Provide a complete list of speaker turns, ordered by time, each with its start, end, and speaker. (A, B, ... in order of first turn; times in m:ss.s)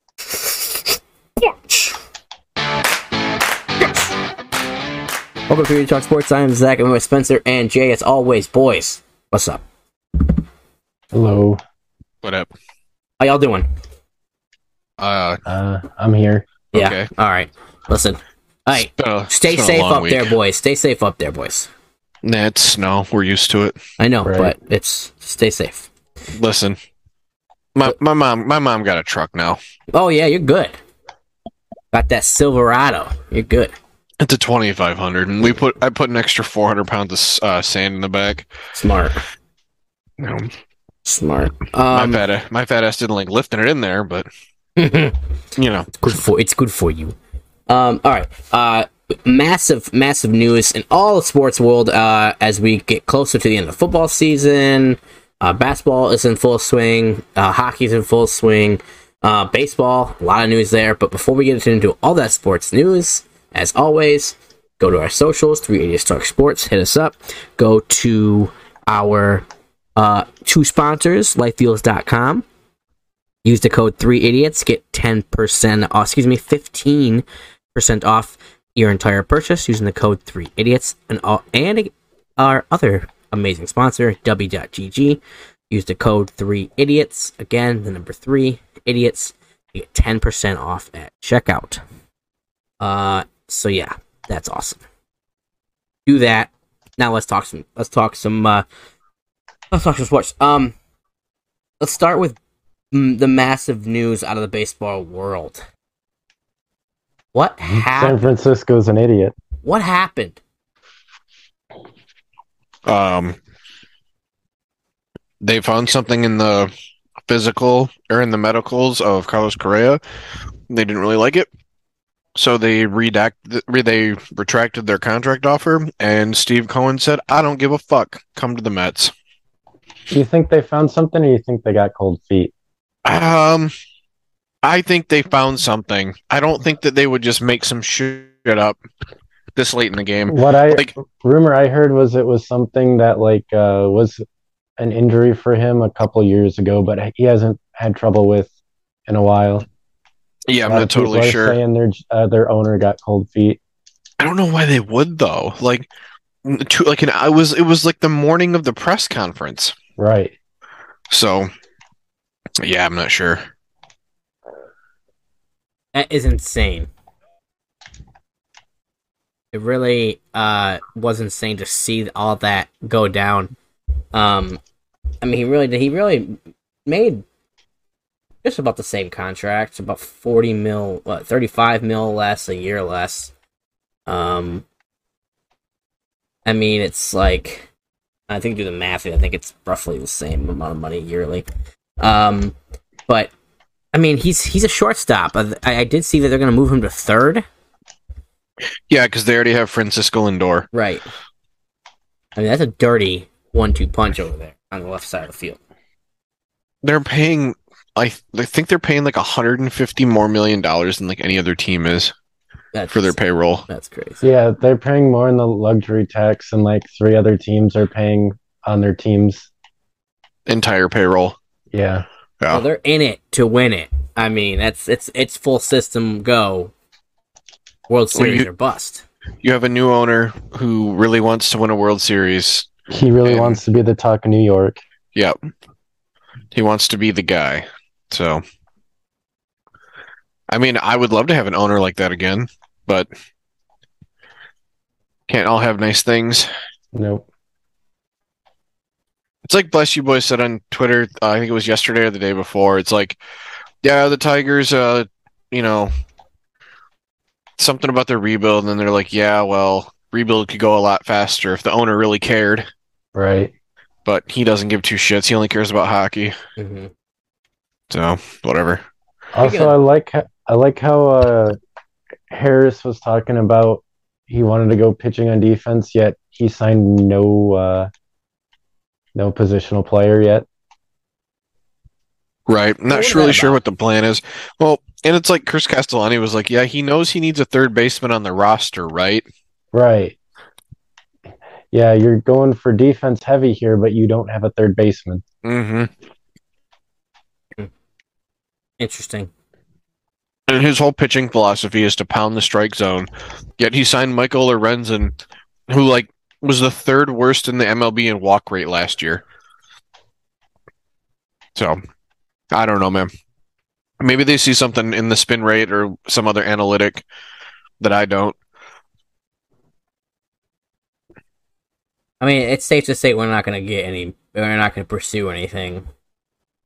0:00.2-0:02.0 A
0:03.8-0:04.1 A
0:05.5-0:09.6 A
0:11.1-0:11.6 B
0:12.2-0:12.5 C
0:13.2-0:13.7 A
0:15.0-0:15.4 C
0:15.5-0:16.5 B
0:16.7-0:17.0 C
0:16.7-0:21.7 A
0:18.8-0:20.3 C
0:22.2-0:23.8 C
0:24.0-0:25.9 A
0:24.2-0:24.5 B
0:26.3-0:26.8 C
0:27.8-0:29.6 C
0:29.9-0:30.8 A
0:31.9-0:33.7 A
0:34.2-0:38.5 C
0:38.7-0:39.2 A
0:40.2-0:40.5 C
0:41.0-0:42.2 A
0:41.9-0:44.3 C
0:44.8-0:45.2 A
0:45.6-0:45.9 C
0:46.0-0:47.2 A
0:47.7-1:09.4 A
1:10.0-1:12.4 A
1:13.4-1:17.2 A
1:17.7-1:31.8 A
1:32.8-1:34.8 A
1:36.0-1:38.6 A
1:39.7-1:40.7 A
1:41.8-1:42.4 A
1:42.9-1:45.6 A
1:47.3-1:48.2 A
1:47.7-1:49.3 B
1:49.6-1:50.4 A
1:52.8-1:53.4 C
1:55.4-1:56.7 C
1:57.3-2:00.0 C
2:00.7-2:01.5 C
2:02.4-2:09.1 C
2:10.1-2:12.5 B
2:13.0-2:13.7 C
2:14.6-2:18.8 C
2:19.6-2:20.9 C
2:20.3-2:24.2 B
2:24.8-2:28.5 B
2:29.1-2:29.7 B
2:30.5-2:31.6 C
2:30.6-2:33.6 B
2:34.2-2:35.9 C
2:36.4-2:39.8 C
2:40.0-2:40.4 B
2:41.1-2:41.5 C
2:42.6-2:43.4 C
2:45.9-2:46.9 A
2:49.5-2:53.5 A
2:54.1-2:54.6 A
2:55.2-2:57.2 A
2:58.4-3:03.3 A
3:04.1-3:04.6 A
3:06.4-3:07.7 A
3:08.3-3:11.5 A
3:12.0-3:12.5 A
3:13.9-3:17.4 A
3:18.9-3:20.7 C
3:20.7-3:21.1 A
3:22.4-3:25.6 A
3:26.8-3:32.1 C
3:32.7-3:33.2 A
3:32.9-3:33.7 C
3:33.7-3:34.2 A
3:34.2-3:39.5 B
3:40.5-3:41.4 C
3:41.7-3:42.1 B
3:42.5-3:46.7 A
3:47.9-3:49.0 A
3:48.1-3:48.5 C
3:49.4-3:52.7 C
3:52.9-3:54.8 B
3:53.2-3:53.6 C
3:56.5-3:58.4 C
4:00.5-4:03.1 C
4:05.3-4:06.5 C
4:06.9-4:07.2 B
4:09.4-4:13.2 C
4:13.8-4:15.9 C
4:17.6-4:22.6 C
4:23.1-4:23.5 B
4:24.1-4:26.3 C
4:26.6-4:26.9 A
4:27.9-4:28.8 C
4:29.3-4:31.6 B
4:29.4-4:29.7 A
4:32.3-4:37.9 B
4:39.1-4:40.5 B
4:42.5-4:49.2 C
4:42.9-4:43.6 A
4:49.7-4:50.2 B
4:51.7-4:55.2 B
4:55.4-4:55.9 C
4:58.8-4:59.3 A
5:00.5-5:05.1 C
5:05.7-5:09.2 C
5:12.5-5:13.1 C
5:14.0-5:17.0 C
5:17.8-5:18.4 C
5:22.2-5:25.9 A